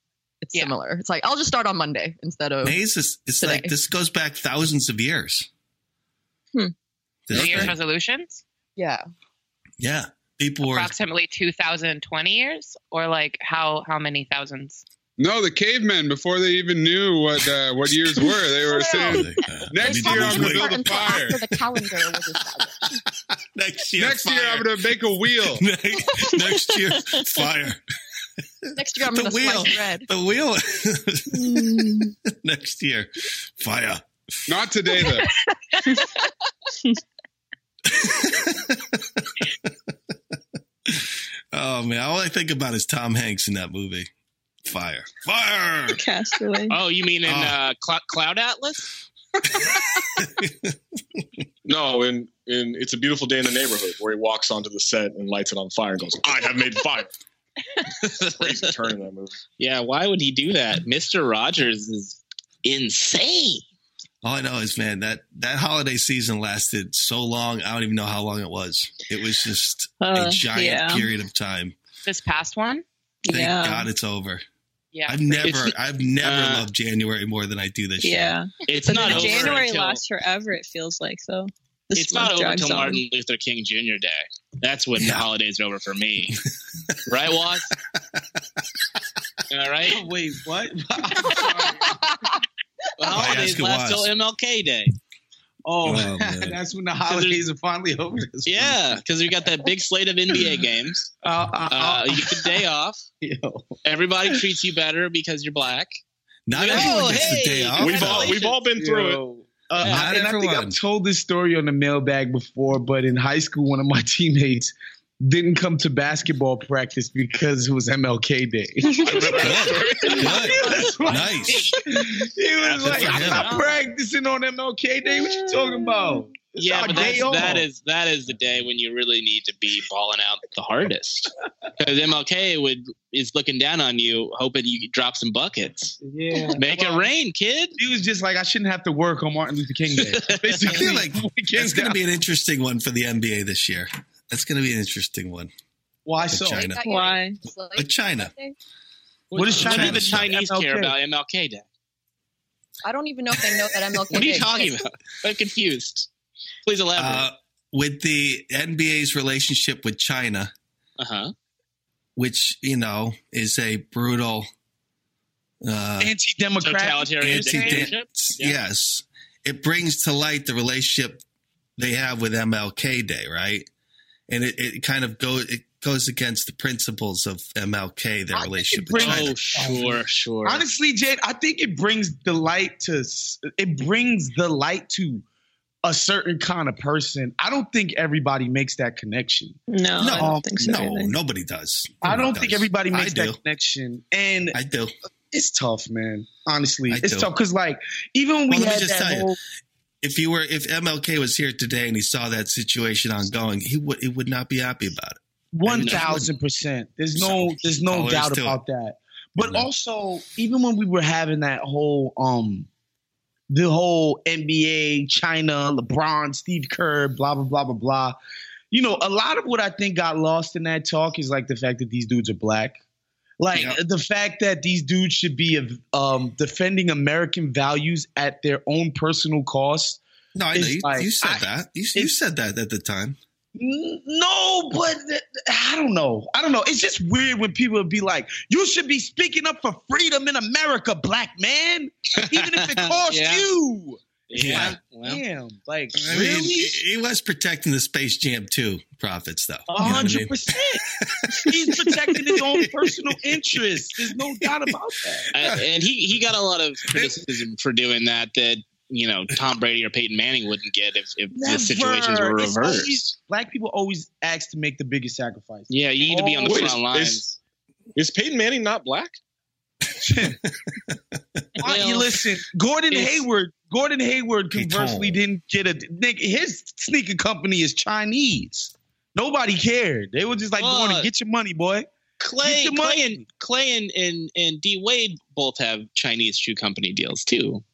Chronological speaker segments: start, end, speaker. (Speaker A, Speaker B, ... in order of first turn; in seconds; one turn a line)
Speaker A: 0.4-2.8
Speaker B: 2.6-5.5
Speaker A: 3.4-3.7
Speaker B: 7.3-7.7
Speaker C: 7.3-8.4
Speaker A: 8.8-9.0
Speaker B: 9.8-10.9
Speaker C: 10.6-14.8
Speaker D: 15.2-21.4
Speaker B: 18.2-22.1
Speaker A: 18.7-22.8
Speaker B: 23.5-24.8
Speaker D: 24.0-25.6
Speaker B: 25.4-27.8
Speaker A: 28.8-30.1
Speaker B: 29.0-34.0
Speaker D: 34.5-35.3
Speaker B: 37.9-38.8
Speaker B: 40.9-44.1
Speaker B: 44.6-46.0
Speaker E: 45.9-46.8
Speaker F: 46.7-48.9
Speaker B: 47.2-47.5
Speaker B: 49.6-50.7
Speaker G: 51.6-57.1
Speaker F: 58.1-58.5
Speaker G: 58.3-59.4
Speaker F: 59.6-63.6
Speaker B: 64.2-71.8
Speaker E: 70.0-71.1
Speaker C: 72.0-72.8
Speaker E: 73.2-73.9
Speaker B: 73.3-74.4
Speaker C: 74.9-75.5
Speaker B: 75.1-78.4
Speaker F: 75.4-76.7
Speaker E: 78.0-83.0
Speaker F: 78.7-80.0
Speaker B: 79.0-79.6
Speaker F: 81.9-86.3
Speaker B: 85.0-85.2
Speaker F: 87.1-87.7
Speaker F: 89.5-90.0
Speaker H: 89.9-91.9
Speaker A: 91.4-92.3
Speaker F: 93.0-94.9
Speaker B: 93.1-94.1
Speaker H: 95.6-99.0
Speaker B: 95.8-96.6
Speaker F: 97.0-97.4
Speaker F: 98.5-101.1
Speaker H: 101.2-102.6
Speaker F: 101.7-103.0
Speaker H: 103.2-103.8
Speaker F: 103.8-106.0
Speaker B: 106.5-108.4
Speaker F: 106.5-108.5
Speaker H: 106.7-107.4
Speaker G: 107.8-109.2
Speaker H: 108.1-127.7
Speaker B: 109.8-110.8
Speaker F: 109.8-110.1
Speaker G: 119.1-119.5
Speaker F: 119.2-120.4
Speaker B: 119.4-121.7
Speaker F: 122.6-123.8
Speaker B: 122.8-123.5
Speaker E: 125.1-126.2
Speaker F: 126.5-136.0
Speaker H: 136.0-137.1
Speaker F: 136.6-137.8
Speaker H: 137.8-142.0
Speaker F: 140.0-140.8
Speaker B: 140.7-145.5
Speaker H: 146.0-146.7
Speaker B: 146.2-146.8
Speaker A: 146.6-148.5
Speaker E: 146.8-147.4
Speaker B: 147.8-148.3
Speaker F: 149.3-151.7
Speaker H: 149.3-150.9
Speaker B: 149.5-150.3
Speaker A: 152.8-154.8
Speaker F: 154.1-156.1
Speaker F: 156.7-157.3
Speaker B: 156.9-160.5
Speaker F: 161.0-161.3
Speaker B: 162.2-164.5
Speaker B: 165.6-166.1
Speaker H: 166.0-167.4
Speaker F: 166.6-168.6
Speaker B: 167.2-171.2
Speaker C: 167.3-167.9
Speaker B: 171.8-173.7
Speaker B: 174.3-179.7
Speaker H: 178.3-185.2
Speaker F: 179.0-180.6
Speaker H: 185.8-189.6
Speaker E: 189.7-191.2
Speaker B: 190.0-193.4
Speaker H: 190.1-190.5
Speaker H: 192.0-194.6
Speaker B: 194.5-194.9
Speaker H: 195.3-199.3
Speaker B: 196.9-197.3
Speaker B: 198.5-199.3
Speaker B: 200.0-206.3
Speaker H: 205.5-212.7
Speaker F: 205.6-206.2
Speaker B: 207.1-208.6
Speaker B: 209.4-209.7
Speaker H: 213.5-218.2
Speaker H: 218.7-222.8
Speaker H: 223.4-230.0
Speaker B: 223.5-223.8
Speaker B: 230.3-233.2
Speaker H: 230.5-231.4
Speaker H: 233.6-246.8
Speaker F: 242.2-243.5
Speaker F: 244.3-245.2
Speaker B: 244.4-244.8
Speaker B: 245.9-252.7
Speaker H: 249.7-250.8
Speaker H: 251.4-255.3
Speaker B: 253.3-255.6
Speaker F: 255.3-263.1
Speaker H: 261.3-266.8
Speaker F: 265.7-267.4
Speaker G: 266.4-267.2
Speaker G: 267.9-269.2
Speaker H: 270.0-270.4
Speaker H: 271.6-281.9
Speaker F: 271.6-272.0
Speaker F: 272.9-273.2
Speaker B: 274.5-275.2
Speaker F: 280.6-281.1
Speaker F: 282.2-287.6
Speaker H: 282.4-283.2